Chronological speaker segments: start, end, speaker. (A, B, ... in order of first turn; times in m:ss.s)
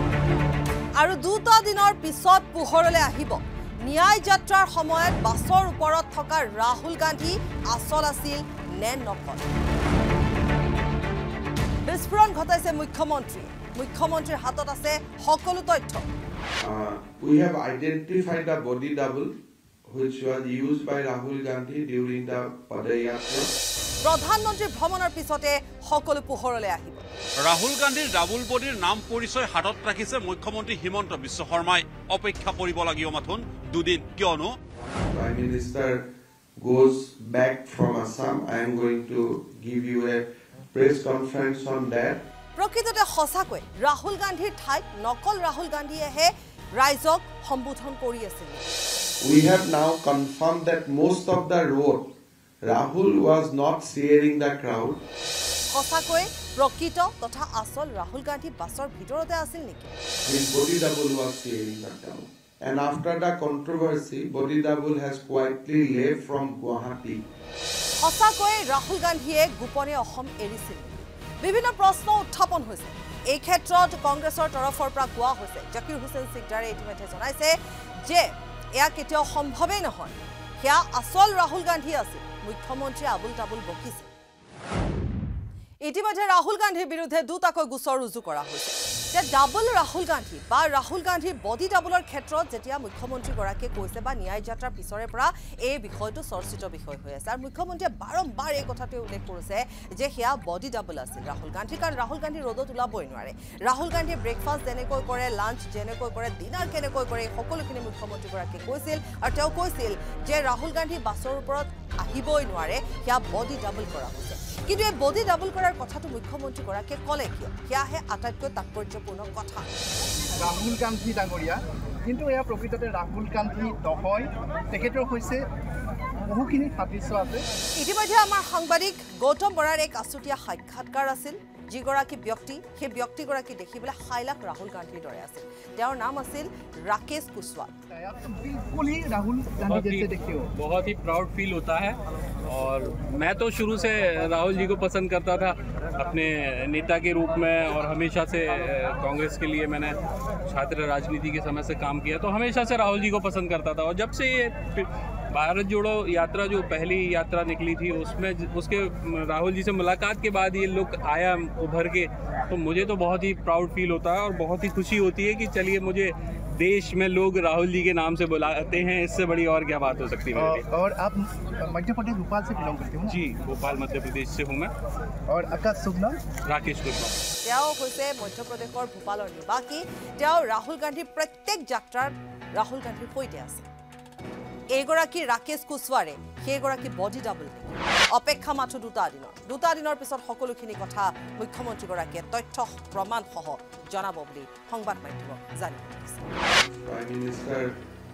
0:01.0-0:09.5 A
0:11.8-0:16.1 A
0:16.6-0:19.3 B
0:19.9-0:23.5 B
0:24.0-0:27.0 A
0:27.4-0:34.6 C
0:34.8-0:36.0 B
0:36.6-0:42.2 B
0:42.6-0:48.7 A
0:49.2-0:52.0 B
0:52.6-0:55.0 B
0:55.7-0:59.9 A
1:00.2-1:07.2 B
1:08.0-1:24.1 A
1:25.8-1:59.7 A
2:00.4-2:05.4 D
2:06.3-2:07.4 D
2:07.7-2:17.7 A
2:17.9-2:20.5 D
2:19.6-2:29.9 E
2:30.4-2:50.6 E
2:50.3-2:53.2 D
2:53.1-2:54.7 E
2:55.3-2:56.2 D
2:56.4-2:57.2 E
2:57.4-3:03.6 A
3:04.7-3:16.2 A
3:16.7-3:17.7 B